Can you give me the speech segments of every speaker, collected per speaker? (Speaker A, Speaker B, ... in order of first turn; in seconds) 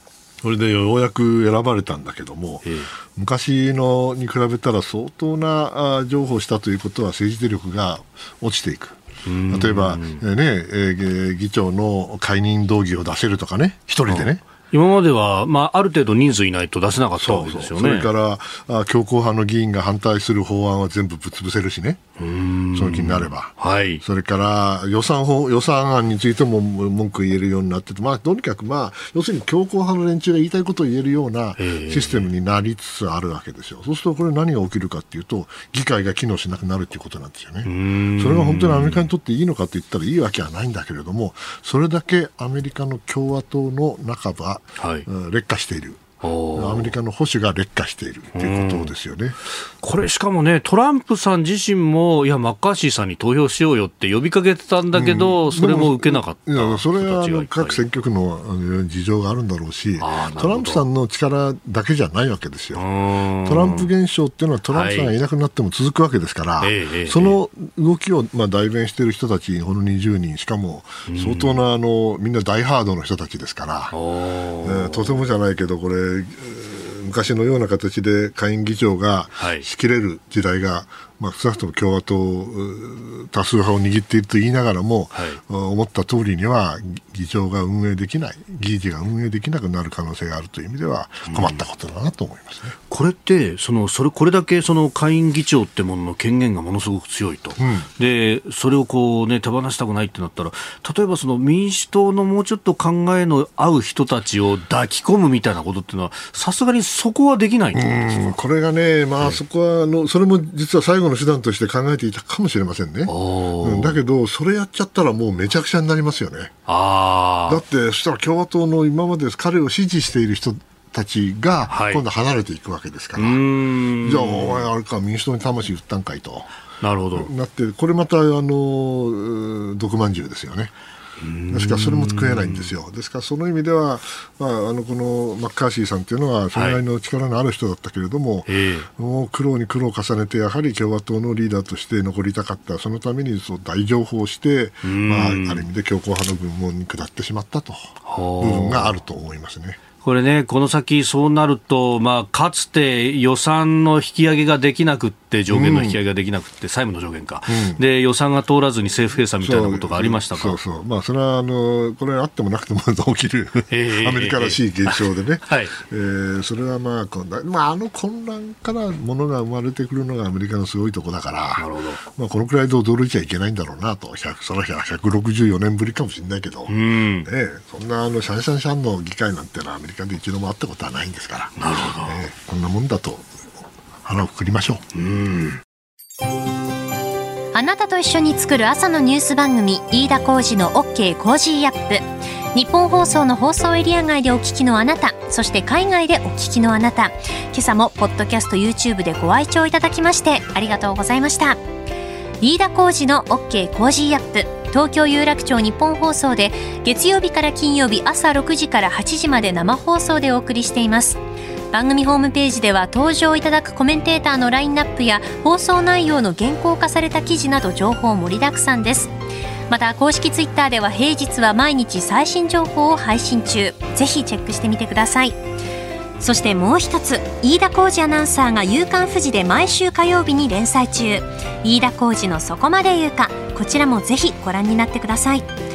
Speaker A: 0.4-9.0, 9.5-14.4, 17.2-22.0, 22.7-49.4, 54.9-62.9, 63.5-73.9, 74.6-92.8, 97.6-97.9, 107.7-116.5, 117.5-123.4, 124.0-126.5, 127.2-130.7, 131.5-149.8, 155.5-156.0, 157.5-157.8, 159.4-183.3, 184.0-184.8
Speaker B: 2.6-2.9, 9.2-10.2, 14.1-18.1, 22.2-24.0, 31.6-32.3, 37.6-39.1, 44.8-45.1, 46.2-46.9, 48.3-48.9, 49.8-57.8, 60.0-60.9, 62.8-63.9, 64.7-65.1, 66.6-67.4, 71.1-71.6, 73.9-75.2, 79.4-79.7, 85.1-85.4, 91.3-91.6, 92.9-108.3, 113.1-114.0, 116.7-117.6, 121.7-122.0, 123.2-124.7, 126.8-127.3, 131.2-132.7, 136.5-136.8, 138.5-138.9, 144.8-145.7, 148.1-149.0, 150.0-160.6, 163.7-165.7, 171.6-172.0, 176.7-177.3, 181.6-182.2, 184.9-185.6
Speaker C: 187.5-201.6, 202.4-211.2, 211.7-219.1, 219.7-225.4, 226.2-235.5